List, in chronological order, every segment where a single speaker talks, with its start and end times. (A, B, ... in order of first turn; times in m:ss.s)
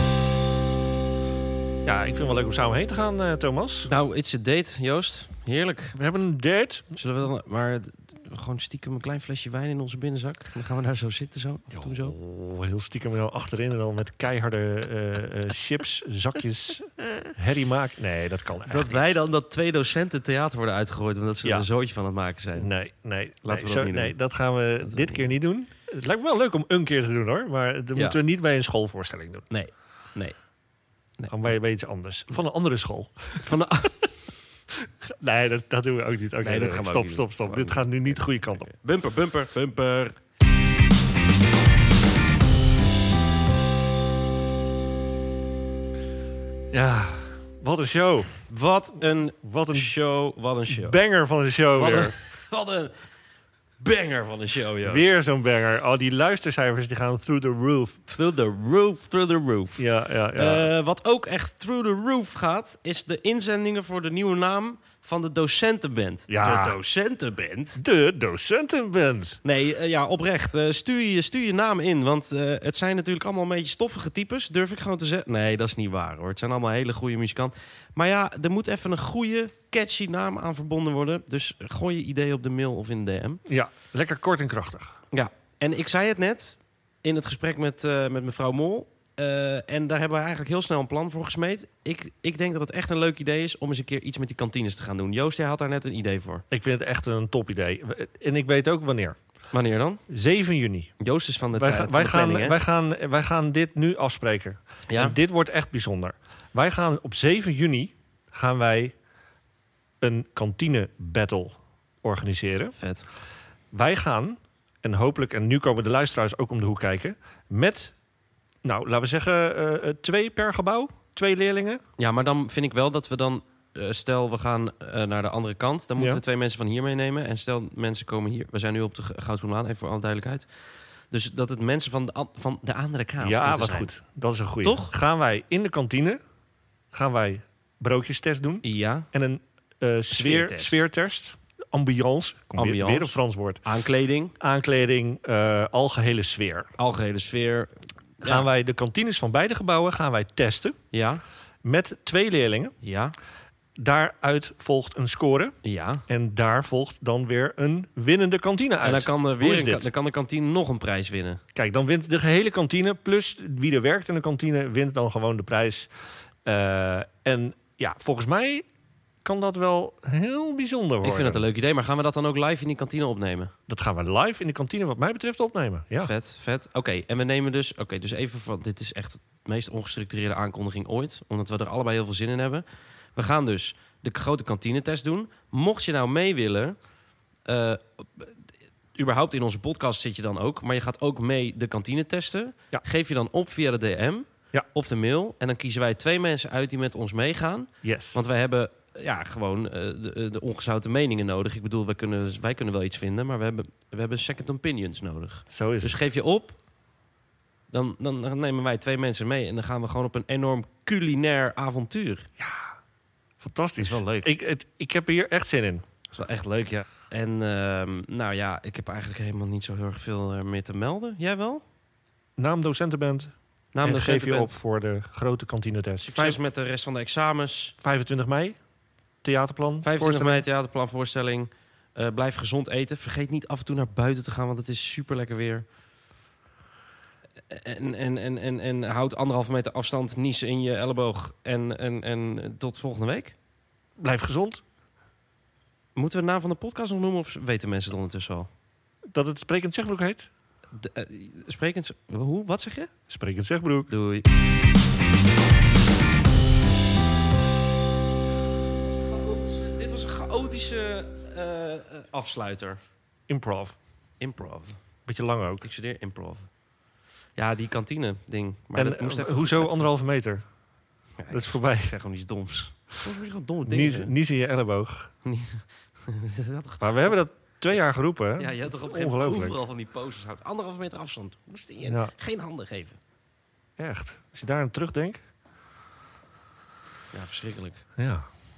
0:01.8-0:03.9 A
0:03.8-0:06.0 B
0:05.9-0:06.9 A
0:06.9-0:12.2 B
0:11.7-0:19.2 A
0:18.7-0:22.7 B
0:21.4-0:21.7 A
0:22.6-0:29.5 A
0:23.4-0:25.3 B
0:29.5-0:30.6 B
0:31.2-0:31.6 B
0:31.3-0:33.5 A
0:33.4-0:34.2 B
0:35.0-0:38.7 A
0:36.4-0:40.2 B
0:46.7-0:48.5 A
0:48.5-0:51.0 B
0:49.4-0:49.9 A
0:50.7-0:52.2 A
0:51.8-0:53.0 B
0:53.8-0:55.2 B
0:54.8-0:58.0 A
0:58.1-1:07.8 B
0:59.8-1:00.7 A
1:06.3-1:06.8 A
1:07.8-1:09.4 A
1:09.4-1:23.4 B
1:23.5-1:25.0 A
1:25.1-1:36.4 B
1:36.5-1:39.2 A
1:39.5-1:40.0 B
1:40.1-1:41.0 A
1:41.0-1:42.6 B
1:41.5-1:49.0 A
1:44.9-1:45.2 B
1:50.0-1:52.8 A
1:52.8-1:53.1 B
1:53.7-1:57.9 A
1:58.6-2:01.8 A
2:02.0-2:13.9 B
2:06.0-2:06.2 A
2:13.2-2:16.2 A
2:14.6-2:14.9 B
2:16.9-2:23.6 A
2:18.6-2:19.1 B
2:20.1-2:20.8 B
2:22.5-2:24.3 B
2:24.4-2:26.7 A
2:26.8-2:28.5 B
2:28.2-2:30.8 A
2:30.9-2:31.2 B
2:31.6-2:32.8 A
2:32.8-2:33.1 B
2:33.8-2:39.9 A
2:35.6-2:36.0 B
2:38.8-2:41.4 B
2:41.6-2:45.9 A
2:46.4-2:48.7 A
2:49.2-2:51.4 A
2:51.0-2:53.5 B
2:53.7-2:56.1 A
2:56.0-3:06.9 B
3:07.4-3:08.4 B
3:08.9-3:26.6 B
3:17.8-3:18.2 A
3:25.5-3:26.1 A
3:27.7-3:32.3 B
3:32.4-3:32.7 A
3:33.4-3:35.9 A
3:33.8-3:34.3 B
3:36.1-3:41.6 B
3:42.4-3:46.4 A
3:43.7-3:44.6 B
3:46.0-3:47.8 B
3:47.8-3:48.6 A
3:49.2-3:50.4 A
3:49.8-3:55.7 B
3:57.5-4:03.4 B
4:04.0-4:04.6 A
4:06.0-4:08.5 B
4:09.1-4:10.3 A
4:10.7-4:12.9 B
4:13.1-4:13.9 A
4:13.9-4:14.2 B
4:18.9-4:22.8 B
4:23.3-4:23.8 A
4:24.2-4:25.1 B
4:25.0-4:25.7 A
4:25.6-4:26.7 B
4:27.3-4:29.9 B
4:28.8-4:30.6 A
4:31.2-4:34.1 B
4:31.3-4:32.0 A
4:33.7-4:35.1 A
4:35.2-4:37.1 B
4:36.8-4:39.6 A
4:38.4-4:43.0 B
4:41.8-4:42.1 A
4:43.8-4:45.2 A
4:47.1-4:47.9 B
4:48.0-4:48.3 A